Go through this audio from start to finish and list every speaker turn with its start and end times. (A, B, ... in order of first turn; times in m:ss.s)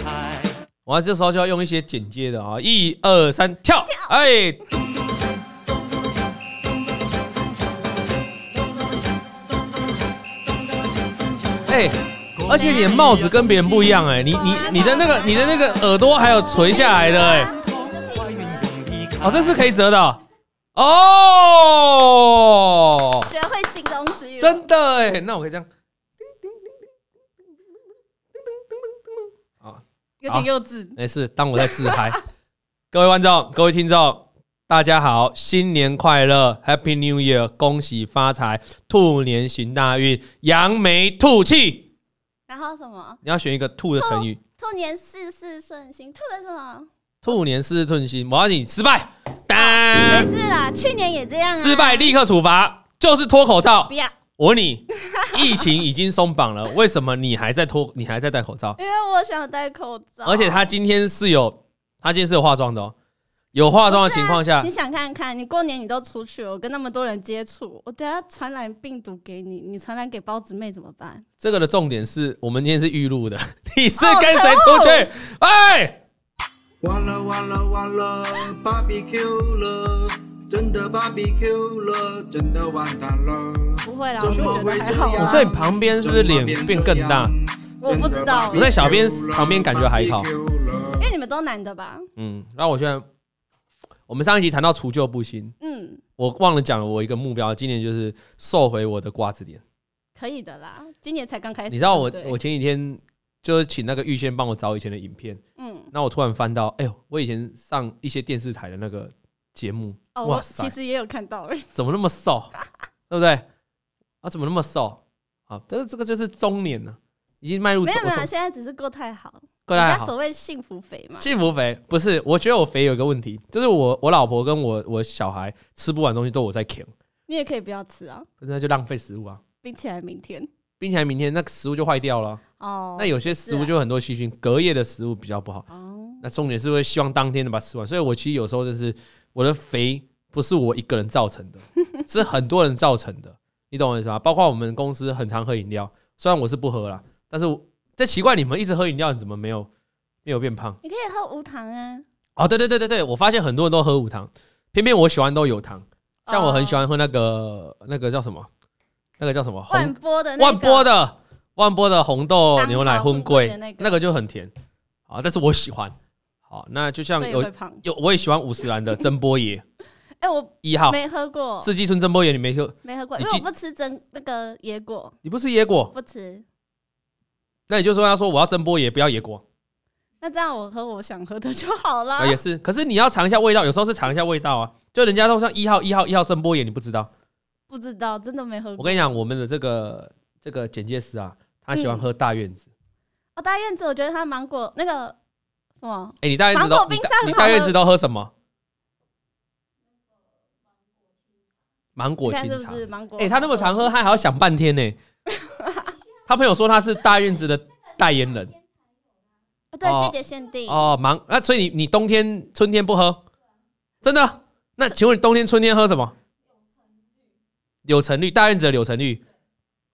0:00.9-0:04.6 A
0:03.8-0:04.1 B
0:11.7-0:17.5 A
0:14.3-0:18.9 B
0:19.2-0:20.2 A
0:20.8-0:23.3 A
0:23.2-0:24.7 B
0:24.4-0:25.7 A
0:28.4-0:28.9 A
0:29.6-0:32.2 A
0:30.2-0:31.0 B
0:31.6-0:32.2 B
0:32.9-0:41.9 A
0:42.5-0:43.2 B
0:43.2-0:44.4 A
0:44.0-0:46.9 B
0:47.2-0:50.3 A
0:49.5-0:52.1 B
0:51.5-0:58.8 A
0:53.9-0:54.2 B
0:55.1-0:55.7 B
0:58.8-1:00.7 B
1:00.2-1:02.9 A
1:03.5-1:04.7 A
1:03.9-1:11.2 B
1:11.4-1:16.0 A
1:14.0-1:15.1 B
1:16.8-1:31.1 C
1:23.8-1:25.5 B
1:24.3-1:24.6 A
1:25.1-1:27.3 A
1:27.8-1:28.7 B
1:28.5-1:30.3 A
1:31.0-1:32.1 B
1:32.2-1:33.0 A
1:34.1-1:35.5 A
1:35.6-1:36.0 B
1:36.2-1:39.6 A
1:40.2-1:42.4 B
1:41.7-1:45.4 A
1:45.6-1:45.9 B
1:45.9-1:50.7 A
1:50.2-1:51.7 B
1:51.8-1:52.5 A
1:53.1-1:53.4 A
1:54.2-1:58.3 A
1:57.8-2:01.3 B
1:59.7-2:00.1 A
2:01.2-2:06.9 A
2:07.3-2:08.3 B
2:08.4-2:09.4 A
2:09.6-2:10.5 B
2:10.8-2:12.4 A
2:12.6-2:13.7 B
2:13.0-2:15.7 A
2:15.7-2:16.3 B
2:16.2-2:29.7 A
2:30.2-2:30.8 A
2:30.8-2:32.1 B
2:32.4-2:38.5 A
2:36.3-2:36.8 B
2:39.2-2:44.5 A
2:39.7-2:40.9 B
2:42.6-2:44.0 B
2:45.1-2:46.0 A
2:46.5-2:49.6 A
2:47.2-2:47.8 B
2:50.2-2:51.7 B
2:50.6-2:51.0 A
2:51.6-2:53.4 A
2:52.8-2:55.2 B
2:55.2-2:55.9 A
2:55.9-2:56.4 B
2:57.7-2:59.4 A
3:00.2-3:02.4 B
3:02.2-3:07.1 A
3:07.7-3:09.2 B
3:08.8-3:12.7 A
3:11.7-3:12.0 B
3:13.4-3:15.2 B
3:15.8-3:17.8 B
3:16.2-3:18.3 A
3:22.0-3:25.0 A
3:22.2-3:23.8 B
3:25.3-3:26.0 B
3:26.3-3:28.6 A
3:29.7-3:30.9 B
3:29.8-3:30.2 A
3:30.7-3:33.2 A
3:34.0-3:36.2 A
3:37.8-3:39.2 A